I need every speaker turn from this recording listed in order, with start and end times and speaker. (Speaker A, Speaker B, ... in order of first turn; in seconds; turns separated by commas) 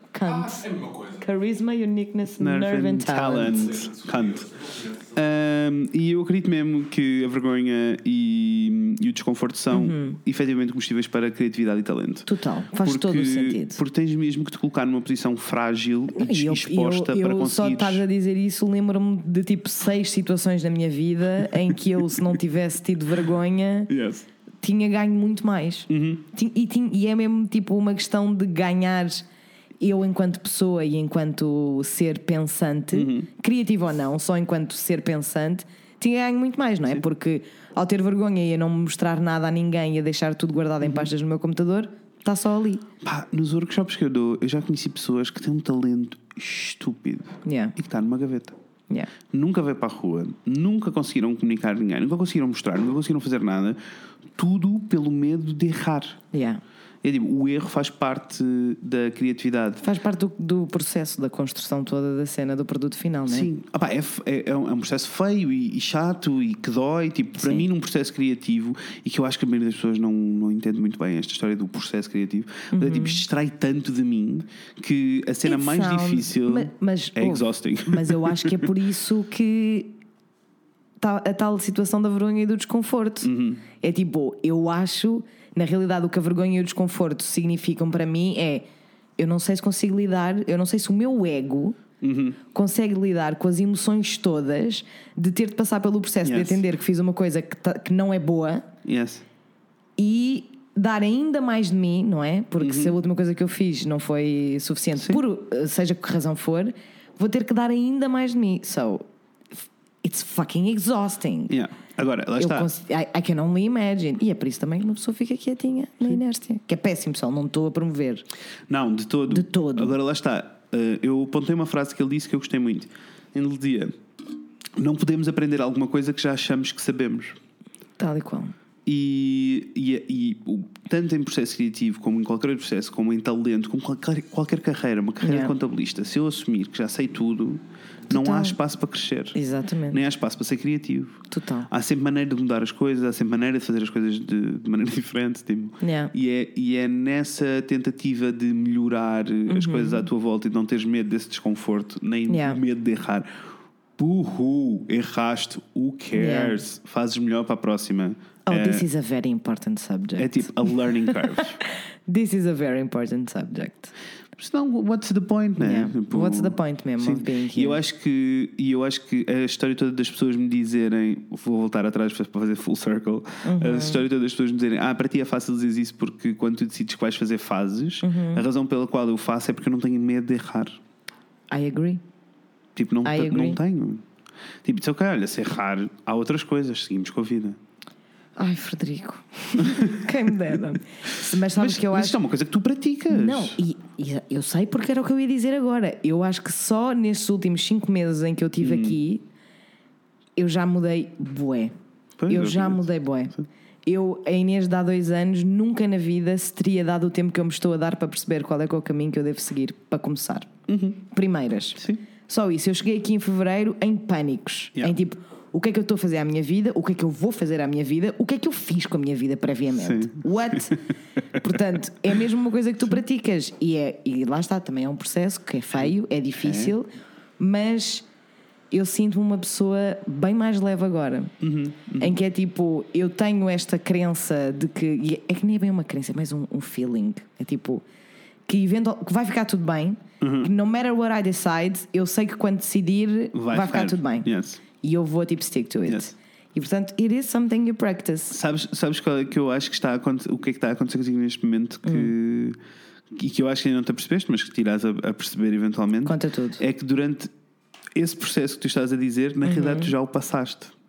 Speaker A: 0.1-0.7, Speaker B: 0.2-1.3, Speaker A: 1.2-3.7, Speaker C: 2.4-4.5, Speaker B: 3.5-5.2, Speaker C: 5.1-12.3, Speaker A: 9.7-10.2, Speaker A: 12.3-13.8, Speaker C: 12.8-18.0, Speaker A: 16.1-23.9, Speaker C: 23.9-24.2, Speaker A: 24.6-29.2, Speaker C: 25.9-26.2, Speaker A: 29.8-42.8, Speaker C: 32.9-33.3, Speaker C: 40.8-41.1, Speaker C: 43.0-48.6, Speaker A: 47.4-47.7, Speaker C: 49.3-53.8, Speaker C: 54.4-56.2, Speaker A: 56.3-56.6, Speaker C: 57.0-59.8, Speaker A: 59.8-63.5, Speaker C: 63.3-78.7, Speaker A: 67.4-67.7, Speaker A: 72.7-73.2, Speaker A: 75.4-80.0, Speaker A: 81.0-88.6, Speaker C: 83.2-83.6, Speaker A: 89.2-91.8, Speaker C: 92.0-92.4, Speaker A: 92.5-98.7, Speaker C: 96.2-96.6, Speaker C: 98.8-99.2, Speaker A: 100.0-109.0, Speaker C: 102.6-102.9, Speaker A: 110.0-111.5, Speaker C: 111.5-112.7, Speaker A: 112.4-118.2, Speaker C: 118.7-124.0, Speaker A: 119.3-119.9, Speaker C: 124.8-127.4, Speaker A: 128.0-128.5, Speaker C: 128.8-139.4, Speaker A: 135.2-135.5, Speaker A: 138.1-138.6, Speaker A: 139.3-140.0, Speaker C: 139.9-153.3, Speaker A: 141.3-141.7, Speaker A: 145.8-146.1, Speaker A: 149.5-150.1, Speaker A: 152.3-152.6, Speaker C: 154.0-158.8, Speaker A: 156.1-156.6, Speaker A: 158.4-163.9, Speaker C: 160.2-161.6, Speaker C: 164.3-180.8, Speaker A: 165.6-167.8, Speaker A: 173.4-174.0, Speaker A: 178.0-178.4, Speaker A: 181.5-182.0, Speaker C: 182.8-184.0, Speaker A: 183.0-183.6, Speaker C: 184.6-187.6, Speaker A: 188.3-192.2, Speaker C: 189.6-190.0, Speaker C: 191.2-193.6, Speaker A: 193.1-199.2, Speaker C: 198.6-199.0, Speaker A: 200.3-201.7, Speaker C: 202.2-202.8, Speaker A: 202.3-203.3, Speaker A: 203.8-210.5, Speaker C: 210.7-211.0, Speaker A: 211.1-220.8, Speaker C: 211.8-212.0, Speaker C: 219.8-220.8, Speaker A: 221.4-228.1, Speaker C: 226.4-226.7, Speaker A: 228.7-231.3, Speaker C: 231.4-232.2, Speaker A: 232.0-237.8, Speaker A: 238.5-248.3, Speaker C: 240.2-240.5, Speaker C: 243.3-244.6, Speaker C: 245.8-246.1, Speaker C: 248.3-252.6, Speaker A: 251.8-252.1, Speaker C: 253.1-257.3, Speaker A: 256.0-256.6, Speaker C: 257.9-260.7, Speaker A: 259.4-259.9